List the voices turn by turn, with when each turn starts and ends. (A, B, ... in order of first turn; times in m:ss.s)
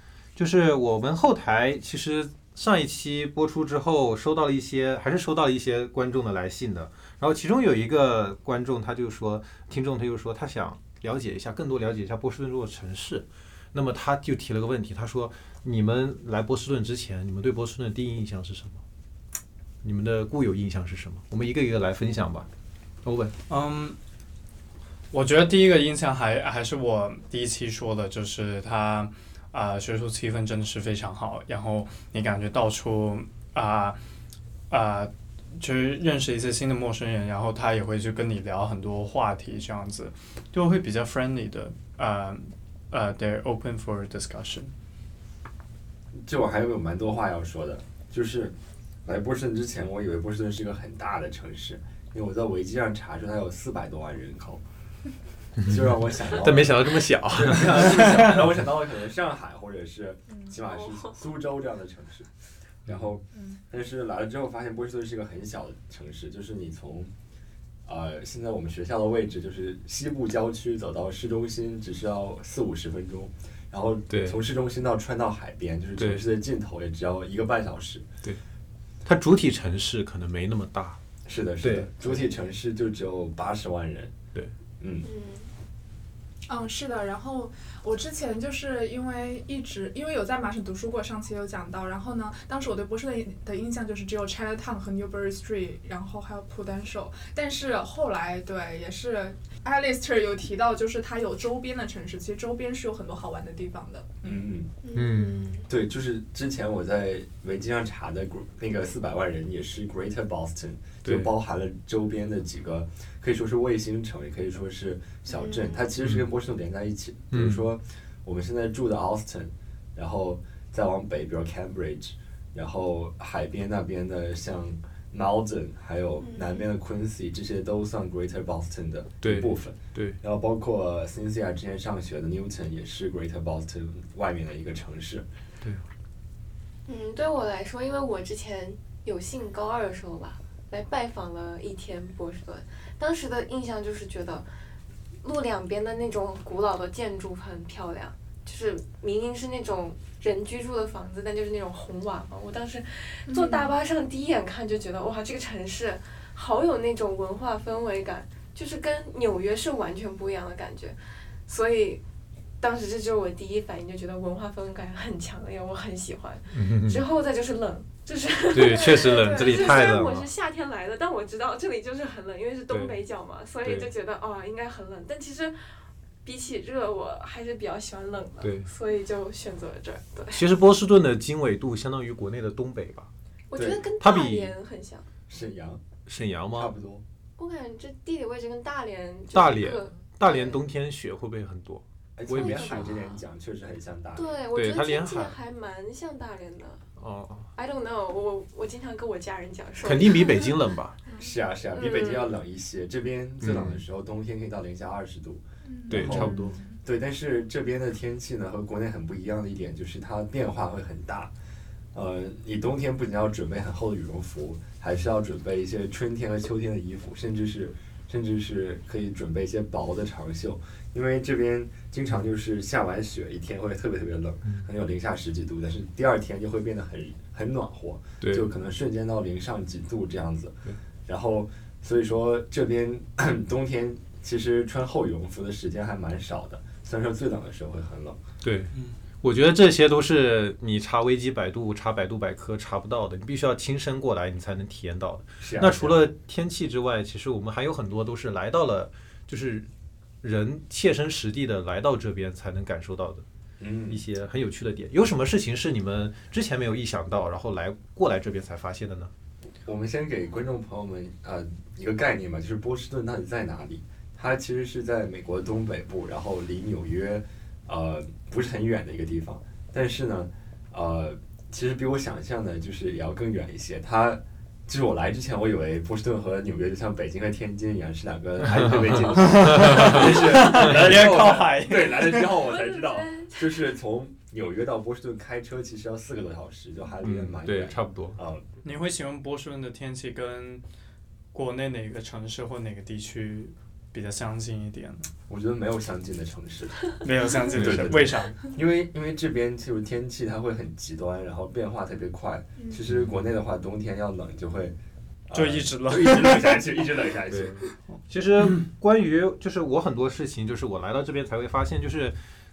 0:00.4-0:18.8 A
0:19.8-0:22.5 A
0:23.0-0:23.3 A
0:23.5-0:24.0 B
0:25.1-0:34.0 B
0:34.7-0:44.7 B
0:46.2-0:48.5 C
0:49.0-0:54.6 C
0:55.6-0:58.0 A
0:55.6-0:56.8 C
0:57.4-1:02.3 C
0:57.9-0:58.3 B
1:00.7-1:01.2 D
1:02.8-1:07.1 C
1:07.8-1:18.1 C
1:14.1-1:14.4 A
1:16.0-1:16.2 A
1:19.0-1:21.0 A
1:21.2-1:24.1 C
1:21.6-1:21.9 A
1:24.8-1:25.0 C
1:25.0-1:25.5 D
1:26.5-1:44.4 E
1:44.2-1:44.7 C
1:44.8-1:45.7 D
1:44.9-1:45.5 A
1:45.7-2:15.2 C
1:51.0-1:51.3 A
1:55.3-1:55.8 D
1:57.3-1:57.6 A
2:06.2-2:06.6 D
2:09.2-2:10.2 A
2:16.9-2:24.4 D
2:25.2-2:41.0 D
2:33.3-2:33.7 E
2:41.5-2:42.0 D
2:42.6-2:55.6 D
2:46.5-2:47.0 A
2:48.5-2:50.3 A
2:52.7-2:53.0 A
2:53.6-2:53.9 A
2:56.2-3:00.4 D
2:58.4-2:58.7 A
3:00.3-3:03.1 A
3:03.5-3:05.0 D
3:03.5-3:03.8 C
3:04.0-3:04.5 A
3:05.3-3:05.9 C
3:06.0-3:06.7 A
3:06.5-3:07.0 C
3:07.4-3:10.6 D
3:09.3-3:13.0 A
3:12.2-3:14.4 C
3:12.3-3:13.2 D
3:14.2-3:16.8 D
3:14.5-3:15.3 A
3:17.0-3:17.5 A
3:17.5-3:20.6 D
3:19.8-3:21.0 A
3:21.2-3:31.3 C
3:21.7-3:22.3 D
3:23.4-3:23.8 A
3:25.6-3:26.7 E
3:25.9-3:26.6 A
3:31.9-3:58.2 C
3:48.2-3:48.4 A
3:58.4-4:09.7 A
4:05.4-4:06.0 C
4:10.2-4:13.2 A
4:13.6-4:14.0 C
4:13.9-4:19.1 A
4:19.6-4:48.4 C
4:39.1-4:42.4 B
4:39.7-4:40.0 A
4:42.3-4:43.6 D
4:47.0-4:48.2 A
4:48.6-4:50.6 B
4:51.3-4:55.1 B
4:55.3-5:04.7 C
4:57.0-4:58.4 B
4:57.6-4:58.0 A
5:02.9-5:03.1 A
5:05.3-5:07.6 C
5:05.3-5:06.9 B
5:07.3-5:12.2 A